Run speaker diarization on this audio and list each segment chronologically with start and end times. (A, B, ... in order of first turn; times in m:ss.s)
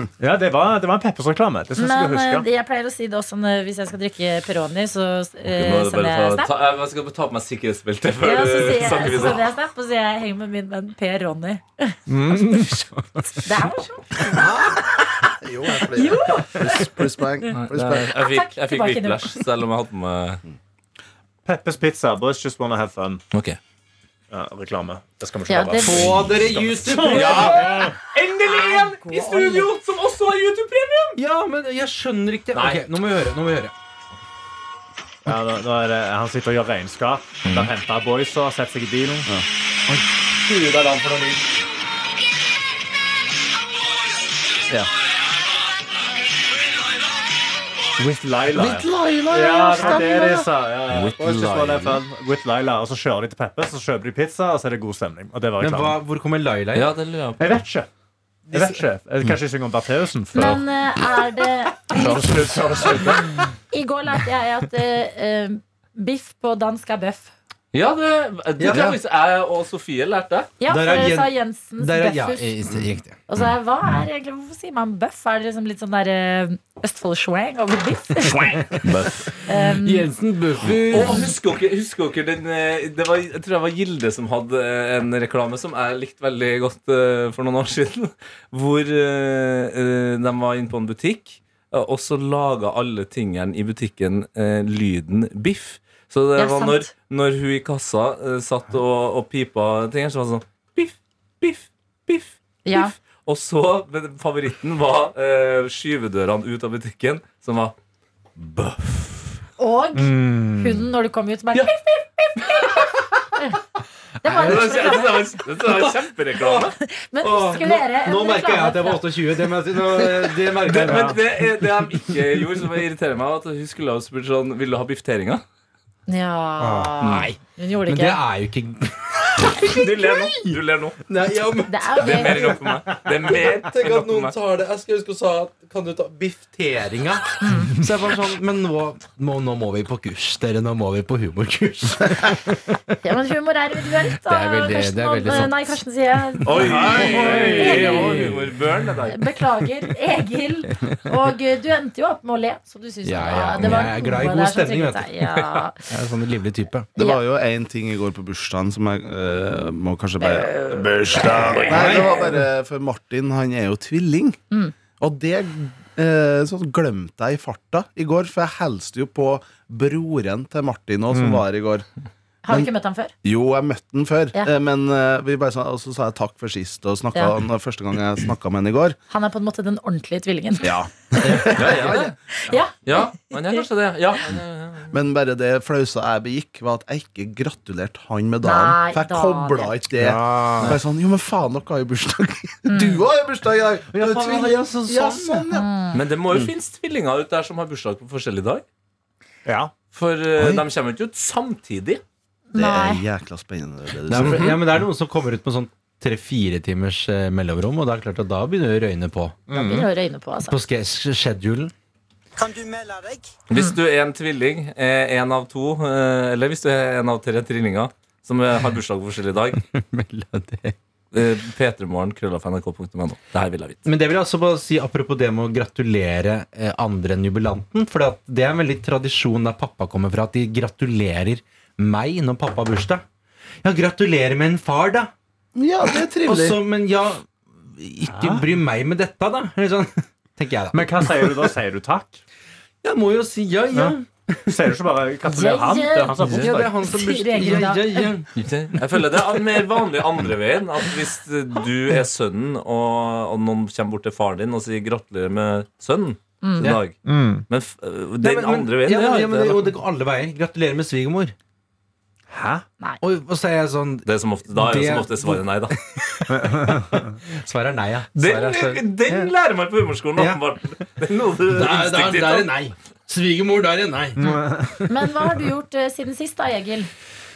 0:00.2-0:02.5 A
0:01.8-0:06.5 B
0:05.5-0:09.5 C
0:08.2-0:12.8 B
0:12.1-0:12.9 A
0:13.4-0:19.4 B
0:14.3-0:18.1 D
0:17.5-0:20.4 C
0:21.4-0:23.2 A
0:23.3-0:23.6 C
0:24.3-0:28.0 A
0:25.5-0:26.2 B
0:25.8-0:27.7 E
0:27.0-0:31.2 C
0:27.2-0:29.7 B
0:31.2-0:33.7 E
0:32.5-0:32.8 C
0:35.2-0:39.3 A
0:37.4-0:37.7 C
0:40.4-0:41.4 A
0:48.0-0:56.0 A
0:48.5-0:50.5 D
0:50.9-0:52.0 C
0:55.6-0:56.9 E
0:56.7-0:57.4 C
0:57.4-0:57.9 A
0:58.5-1:00.6 A
1:00.3-1:02.2 B
1:01.9-1:03.5 A
1:02.0-1:02.4 C
1:03.7-1:07.3 B
1:07.7-1:10.5 C
1:08.6-1:09.0 E
1:10.6-1:12.5 B
1:10.7-1:13.2 E
1:13.3-1:18.7 B
1:18.8-1:19.3 C
1:19.4-1:20.1 B
1:19.6-1:21.3 E
1:20.8-1:47.7 C
1:21.0-1:21.3 B
1:36.4-1:36.9 B
1:42.6-1:42.9 B
1:48.4-1:49.4 C
1:49.6-1:53.6 B
1:49.9-1:50.8 A
1:52.4-1:52.8 C
1:54.2-1:55.4 B
1:54.3-1:55.0 E
1:54.3-1:56.7 C
1:55.6-2:01.2 E
1:56.8-1:59.1 B
2:00.6-2:05.4 C
2:00.8-2:01.2 A
2:06.1-2:08.2 B
2:06.6-2:07.0 A
2:07.0-2:22.8 E
2:07.0-2:07.3 C
2:09.6-2:11.0 C
2:11.7-2:12.6 B
2:12.0-2:14.3 C
2:17.4-2:17.7 B
2:23.0-2:28.3 B
2:24.2-2:25.8 E
2:26.4-2:28.5 E
2:26.4-2:29.2 C
2:26.6-2:28.0 A
2:29.1-2:35.9 B
2:33.0-2:35.1 E
2:35.9-2:36.9 E
2:37.0-2:37.2 B
2:37.0-2:44.4 D
2:40.2-2:41.6 B
2:41.3-2:42.1 C
2:41.6-2:42.3 E
2:45.0-2:51.8 D
2:51.1-2:51.4 A
2:52.4-2:53.1 B
2:53.2-2:59.0 D
2:59.1-3:03.6 B
3:00.6-3:02.5 D
3:01.2-3:01.6 E
3:01.5-3:02.1 C
3:02.8-3:04.9 C
3:04.9-3:15.7 D
3:08.4-3:09.7 B
3:10.0-3:10.8 A
3:12.7-3:13.0 B
3:13.9-3:15.5 E
3:15.5-3:16.0 B
3:15.9-3:18.6 C
3:19.4-3:19.7 A
3:19.9-3:22.0 C
3:22.5-3:23.0 B
3:22.5-3:24.6 D
3:24.1-3:29.4 E
3:24.2-3:24.6 C
3:29.5-3:29.9 A
3:29.5-3:30.6 B
3:30.5-3:31.7 E
3:32.4-3:33.1 E
3:33.5-3:39.6 C
3:39.6-3:40.8 E
3:41.1-3:43.8 C
3:43.8-3:53.0 E
3:53.6-3:55.1 E
3:55.6-3:56.6 D
3:56.2-4:01.3 E
3:58.1-3:58.4 A
4:00.7-4:02.2 A
4:02.8-4:04.6 E
4:04.5-4:06.7 A
4:05.2-4:08.1 B
4:06.2-4:08.4 E
4:08.4-4:19.7 C
4:16.4-4:16.7 B
4:17.0-4:17.4 A
4:18.2-4:21.3 E
4:22.3-4:22.6 A
4:23.0-4:29.3 E
4:24.0-4:25.8 C
4:26.3-4:27.1 A
4:28.2-4:32.5 C
4:31.5-4:34.9 E
4:34.2-4:34.6 A
4:34.9-4:36.9 B